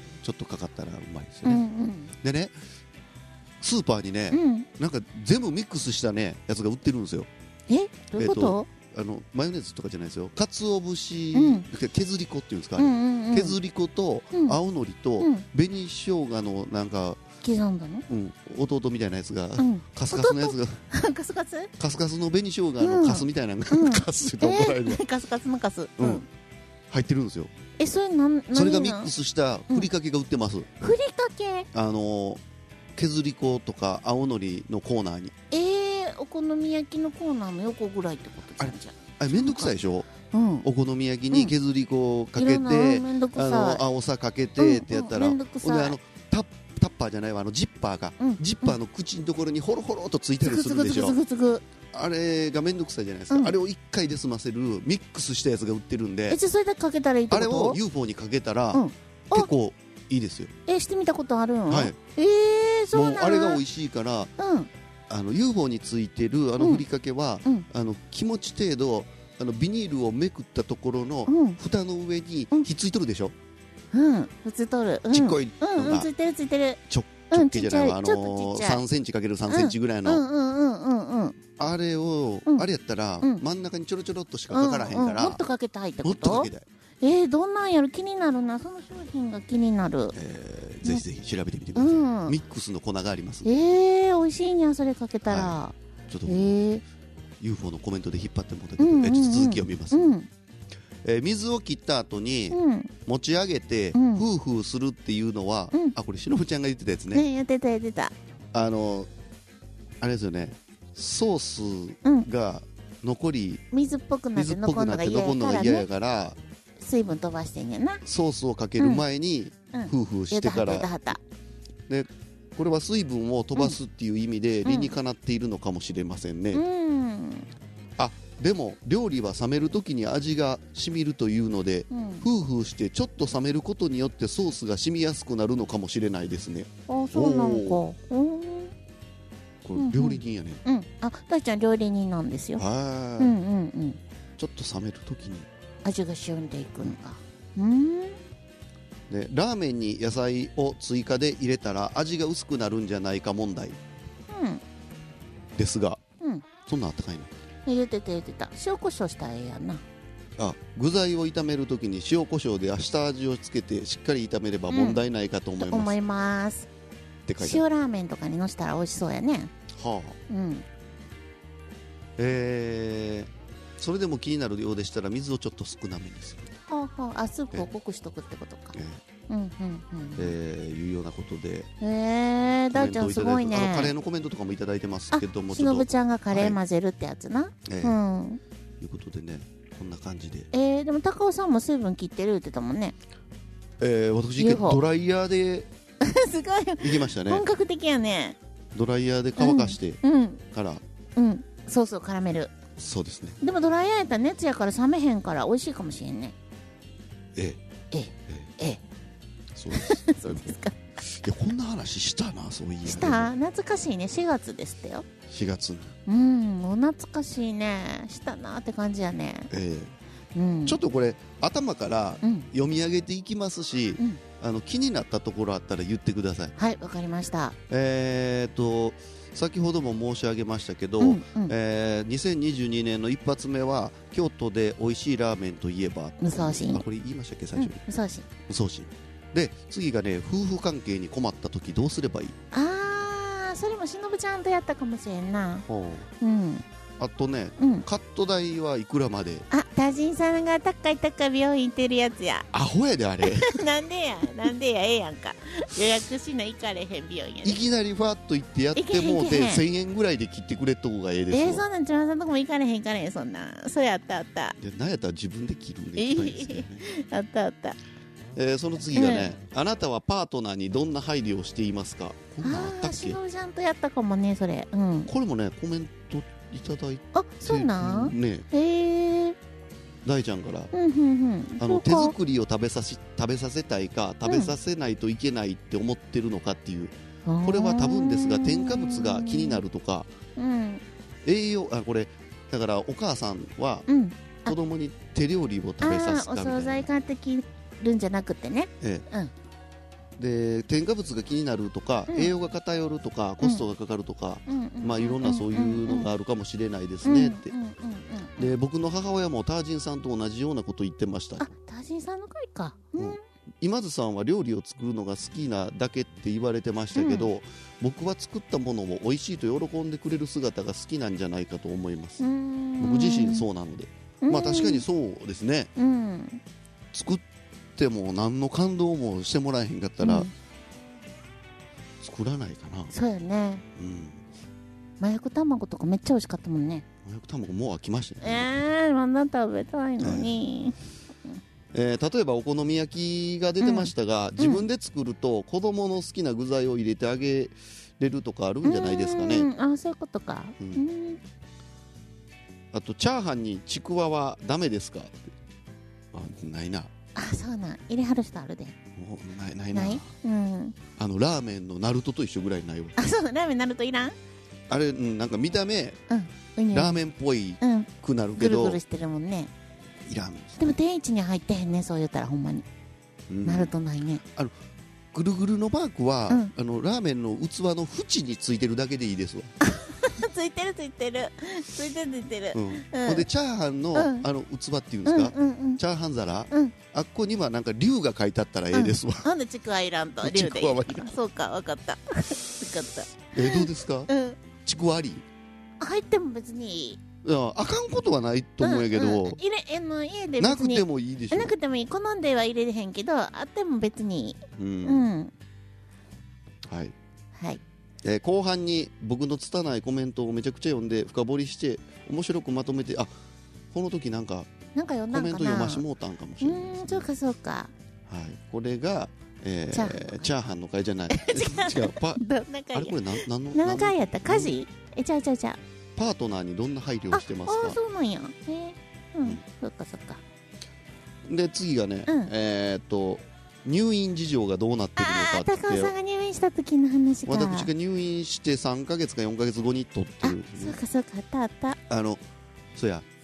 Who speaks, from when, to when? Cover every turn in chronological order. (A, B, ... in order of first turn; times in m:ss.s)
0:00.2-0:01.6 A
0:01.4-0:02.1 B
0:02.2-0:02.6 A
0:03.6-0:07.3 A
0:04.3-0:04.7 B
0:07.7-0:08.7 B
0:08.2-0:17.2 A
0:11.3-0:11.7 B
0:12.8-0:13.6 B
0:14.3-0:14.6 B
0:15.2-0:15.4 B
0:17.4-0:18.1 B
0:18.1-0:20.8 A
0:19.6-0:21.7 B
0:21.8-0:25.0 A
0:22.8-0:26.3 B
0:26.0-0:26.2 A
0:26.9-0:27.5 A
0:27.8-0:29.1 B
0:28.5-0:30.7 A
0:30.8-0:31.7 B
0:31.7-0:32.4 A
0:33.0-0:35.3 A
0:35.5-0:39.7 B
0:38.6-0:40.1 A
0:40.3-0:40.7 B
0:40.6-0:51.2 A
0:42.4-0:43.8 B
0:44.6-0:46.0 B
0:48.2-0:48.8 B
0:50.4-0:51.6 B
0:51.9-0:56.4 A
0:56.3-0:57.8 B
0:57.3-1:00.5 A
0:58.7-0:59.5 B
1:00.7-1:03.6 B
1:01.7-1:02.0 A
1:02.9-1:04.3 A
1:04.4-1:04.7 B
1:05.1-1:13.4 A
1:06.6-1:06.8 B
1:11.3-1:11.6 B
1:13.9-1:18.8 B
1:15.1-1:16.1 A
1:16.9-1:20.2 A
1:19.5-1:21.4 B
1:21.6-1:25.4 A
1:24.5-1:26.5 B
1:26.0-1:26.7 A
1:27.0-1:30.2 B
1:30.1-1:33.5 A
1:31.8-1:32.4 B
1:33.4-1:35.8 B
1:35.3-1:36.6 A
1:36.3-1:36.8 B
1:37.4-1:40.1 A
1:38.8-1:40.3 B
1:41.0-1:47.2 A
1:42.5-1:42.9 B
1:43.9-1:44.2 B
1:47.1-1:48.1 B
1:48.5-1:49.1 A
1:50.0-1:53.6 A
1:53.7-1:55.9 B
1:54.4-1:56.4 A
1:56.8-1:58.0 B
1:58.0-2:00.9 A
1:58.8-1:59.0 B
1:59.7-2:01.2 B
2:01.9-2:06.6 A
2:04.6-2:04.9 B
2:06.5-2:07.5 B
2:08.0-2:17.8 A
2:11.9-2:12.3 B
2:16.9-2:18.7 B
2:19.6-2:20.6 A
2:19.8-2:22.6 B
2:22.6-2:23.4 A
2:23.2-2:24.0 B
2:24.4-2:25.5 A
2:25.8-2:28.2 B
2:29.1-2:33.8 A
2:34.3-2:34.6 B
2:35.6-2:36.0 A
2:36.6-2:37.3 A
2:37.7-2:39.8 B
2:40.4-2:46.0 A
2:44.7-2:45.0 B
2:45.6-2:46.7 B
2:47.3-2:47.6 A
2:47.4-2:49.5 B
2:49.7-2:50.2 A
2:50.3-2:50.6 B
2:52.2-2:56.5 A
2:56.7-2:58.8 B
2:58.7-2:59.0 A
2:59.3-3:00.3 B
3:00.2-3:01.7 A
3:01.8-3:03.9 B
3:02.7-3:06.6 A
3:05.1-3:08.4 B
3:07.7-3:08.0 A
3:08.8-3:10.5 A
3:10.5-3:13.0 B
3:13.8-3:15.7 A
3:14.4-3:14.8 B
3:16.0-3:18.4 B
3:16.8-3:17.5 A
3:18.7-3:20.8 A
3:19.4-3:20.4 B
3:21.2-3:22.5 B
3:22.8-3:23.4 A
3:23.4-3:26.4 B
3:27.4-3:27.6 A
3:27.9-3:28.8 B
3:28.3-3:28.5 A
3:29.5-3:30.4 A
3:29.7-3:30.8 B
3:31.0-3:33.3 A
3:32.8-3:35.1 B
3:35.3-3:36.0 A
3:36.1-3:39.5 B
3:39.5-3:40.0 A
3:40.4-3:40.8 B
3:40.7-3:46.6 A
3:42.2-3:42.5 B
3:46.6-3:47.6 B
3:47.7-3:57.8 A
3:51.0-3:51.5 B
3:56.2-3:56.8 B
3:57.6-3:58.3 B
3:58.5-4:02.4 A
4:02.5-4:05.7 B
4:05.7-4:06.1 A
4:06.2-4:06.6 B
4:07.0-4:09.5 A
4:07.6-4:07.8 B
4:09.5-4:12.5 B
4:12.5-4:13.6 A
4:13.2-4:17.6 B
4:17.4-4:21.6 A
4:18.8-4:19.6 B
4:21.3-4:24.6 B
4:24.6-4:26.8 A
4:26.0-4:27.8 B
4:28.4-4:33.2 A
4:28.9-4:29.3 B
4:32.4-4:35.1 B
4:35.1-4:38.5 A
4:37.1-4:39.4 B
4:40.0-4:40.7 A
4:40.7-4:42.2 B
4:41.6-4:50.1 A
4:44.3-4:44.5 B
4:47.3-4:49.6 B
4:50.4-4:50.8 B
4:51.2-4:53.9 A
4:53.9-4:54.6 B
4:54.4-4:56.9 A
4:55.8-4:59.3 B
4:58.8-4:59.1 A
5:00.2-5:07.5 A
5:04.5-5:06.1 B
5:07.0-5:08.5 B
5:08.4-5:11.5 A
5:11.4-5:13.2 B
5:13.0-5:22.2 A
5:17.0-5:17.3 B
5:22.2-5:23.5 B
5:22.8-5:25.7 A
5:24.2-5:24.8 B
5:25.8-5:26.4 B
5:26.9-5:27.2 A
5:27.8-5:30.3 A
5:30.0-5:30.3 B
5:32.0-5:32.9 A
5:32.9-5:33.6 B
5:33.8-5:34.2 A
5:35.0-5:36.8 B
5:37.0-5:38.5 A
5:38.2-5:41.4 B
5:40.0-5:40.4 A
5:41.7-5:49.5 A
5:43.6-5:44.6 B
5:48.6-5:51.2 B
5:52.7-5:55.4 A
5:56.1-5:56.9 A
5:57.2-5:58.8 B
5:59.0-6:00.1 A
5:59.7-6:00.8 B
6:01.0-6:03.0 A
6:03.0-6:04.2 B
6:04.7-6:06.0 A
6:06.1-6:07.0 B
6:06.7-6:08.8 A
6:07.6-6:09.5 B
6:10.0-6:10.8 A
6:10.6-6:12.7 B
6:13.3-6:13.7 A
6:13.4-6:14.2 B
6:14.2-6:14.6 A
6:15.1-6:19.5 A
6:19.6-6:23.3 B
6:22.5-6:29.3 A
6:24.0-6:24.2 B
6:25.1-6:25.8 B
6:28.7-6:34.4 B
6:30.2-6:31.2 A
6:33.3-6:34.1 A
6:34.6-6:35.2 A
6:35.8-6:37.0 B
6:37.2-6:39.4 A
6:38.6-6:45.3 B
6:40.4-6:41.6 A
6:44.6-6:45.1 A
6:46.6-6:47.0 A
6:47.3-6:47.6 B
6:48.0-6:53.1 A
6:53.7-6:54.5 A
6:54.7-6:55.8 B
6:55.1-6:57.1 A
6:56.4-6:57.7 B
6:58.1-7:04.6 A
6:59.7-7:00.3 B
7:01.1-7:05.6 B
7:06.0-7:07.8 A
7:07.1-7:10.2 B
7:11.2-7:15.9 A
7:12.1-7:12.3 B
7:15.0-7:17.7 B
7:17.3-7:20.8 A
7:20.2-7:21.8 B
7:21.9-7:22.2 A
7:22.8-7:23.1 A